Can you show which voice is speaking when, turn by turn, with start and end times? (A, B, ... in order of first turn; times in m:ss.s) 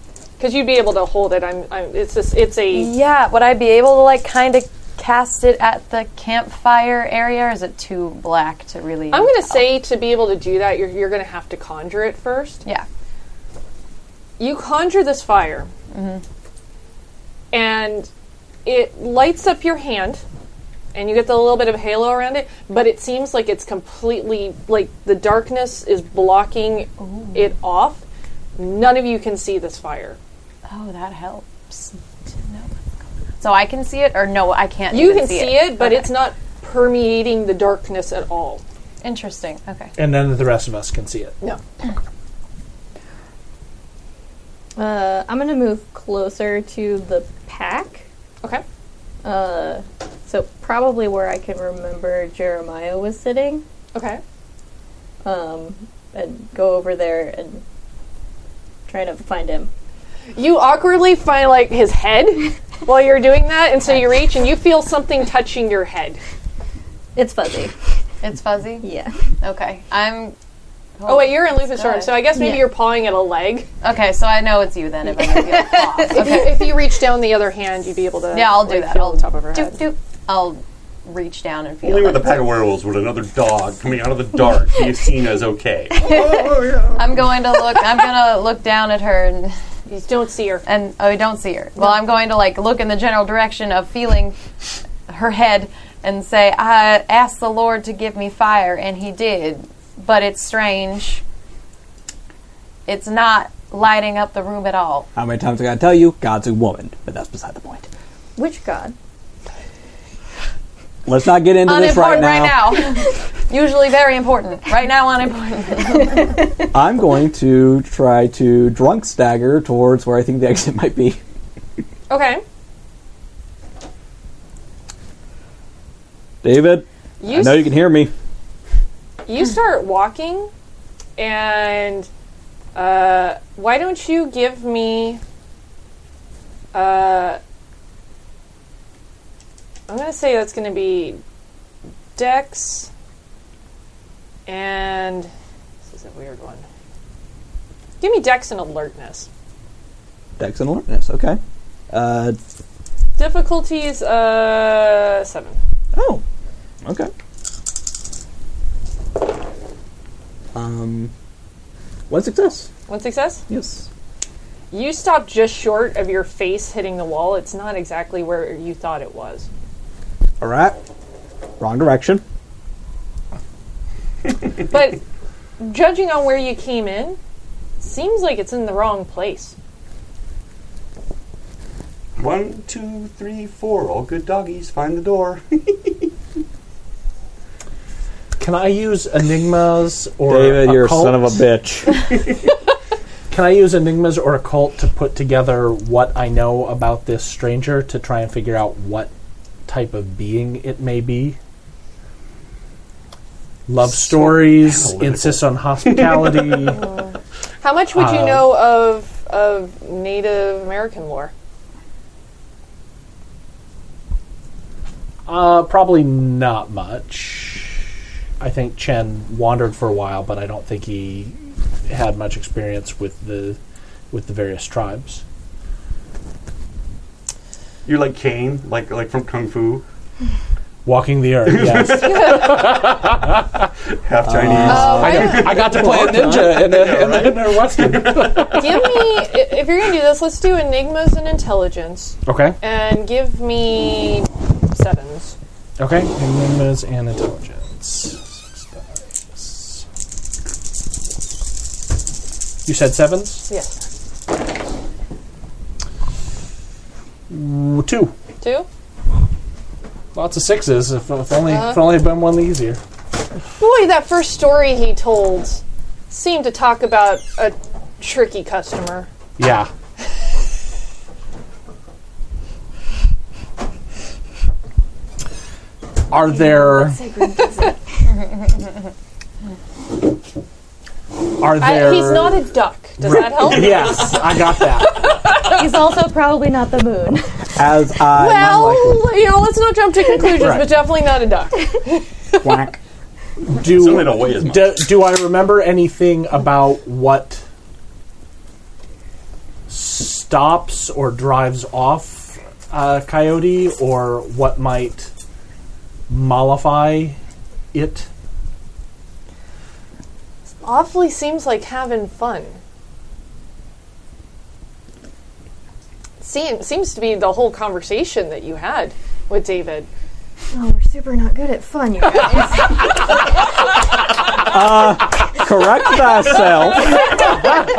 0:00.4-0:02.9 A
0:02.7-0:09.7 B
0:09.1-0:12.6 A
0:14.4-0:15.7 A
0:15.9-0:16.2 B
0:17.5-0:18.1 A
0:18.6-0:20.2 A
0:20.9-0:28.0 A
0:27.0-0:27.5 B
0:28.6-0:30.2 A
0:30.7-0:32.7 B
0:33.4-0:36.1 B
0:34.9-0:38.6 A
0:39.0-0:39.9 B
0:40.0-0:41.4 C
0:44.8-0:48.0 D
0:49.2-0:53.6 D
0:53.9-0:54.2 A
0:55.2-0:57.6 D
0:58.9-0:59.7 D
1:00.3-1:06.2 A
1:07.2-1:07.7 D
1:08.2-1:08.9 B
1:08.8-1:09.1 D
1:09.4-1:10.4 B
1:11.0-1:12.5 B
1:11.1-1:13.7 A
1:13.8-1:16.7 B
1:16.1-1:19.8 A
1:18.3-1:22.5 B
1:21.8-1:27.3 E
1:26.0-1:29.5 B
1:29.9-1:30.6 A
1:30.6-1:34.4 B
1:35.1-1:41.2 B
1:42.9-1:45.1 B
1:45.2-1:47.9 F
1:48.4-1:49.0 D
1:51.1-1:52.7 F
1:51.6-1:56.4 B
1:56.7-2:01.2 F
2:02.1-2:02.4 A
2:06.4-2:08.1 F
2:07.2-2:07.8 A
2:09.3-2:10.5 A
2:11.2-2:12.1 A
2:12.8-2:15.2 A
2:16.7-2:17.4 A
2:19.9-2:21.2 A
2:22.2-2:22.9 A
2:24.5-2:25.3 A
2:25.9-2:26.6 A
2:28.0-2:29.3 A
2:30.4-2:31.4 F
2:31.9-2:32.4 F
2:33.2-2:35.6 A
2:35.9-2:36.2 F
2:36.8-2:37.1 F
2:40.6-2:41.1 F
2:42.1-2:42.7 F
2:42.9-2:43.4 A
2:43.5-2:43.9 F
2:44.7-2:49.5 A
2:50.4-2:50.8 F
2:51.6-2:52.2 F
2:54.7-2:55.0 A
2:55.6-2:57.2 A
2:57.8-2:59.6 A
3:02.2-3:06.1 E
3:08.4-3:11.4 C
3:10.3-3:11.9 F
3:13.3-3:19.1 C
3:19.7-3:21.4 C
3:23.7-3:26.8 C
3:23.8-3:26.8 E
3:26.8-3:31.3 A
3:27.9-3:28.5 C
3:35.3-3:37.9 C
3:38.4-3:43.6 C
3:44.1-3:45.2 C
3:47.9-3:49.8 E
3:50.8-3:53.6 C
3:51.4-3:53.1 E
3:54.0-3:58.6 E
3:54.2-3:56.7 F
3:54.6-3:58.9 C
3:54.6-3:55.7 A
3:58.5-4:05.4 A
4:02.3-4:02.6 C
4:05.8-4:09.8 C
4:12.6-4:13.5 C
4:13.5-4:13.8 A
4:17.3-4:18.1 C
4:18.4-4:18.7 A
4:20.1-4:22.8 C
4:21.4-4:21.9 A
4:23.6-4:29.1 A
4:29.4-4:29.7 C
4:36.1-4:37.0 C
4:36.2-4:37.8 D
4:41.4-4:42.5 C
4:41.6-4:45.6 A
4:43.0-4:45.1 C
4:43.4-4:44.3 E
4:45.5-4:47.4 D
4:47.6-4:49.1 F
4:48.1-4:52.0 A
4:50.4-4:50.7 C
4:52.4-4:52.8 F
4:53.5-4:57.4 C
4:53.5-4:55.1 E
4:59.7-5:05.1 C
5:06.1-5:07.2 C
5:07.7-5:08.1 C
5:10.6-5:12.6 A
5:16.2-5:19.9 A
5:20.5-5:23.0 D
5:24.4-5:27.2 F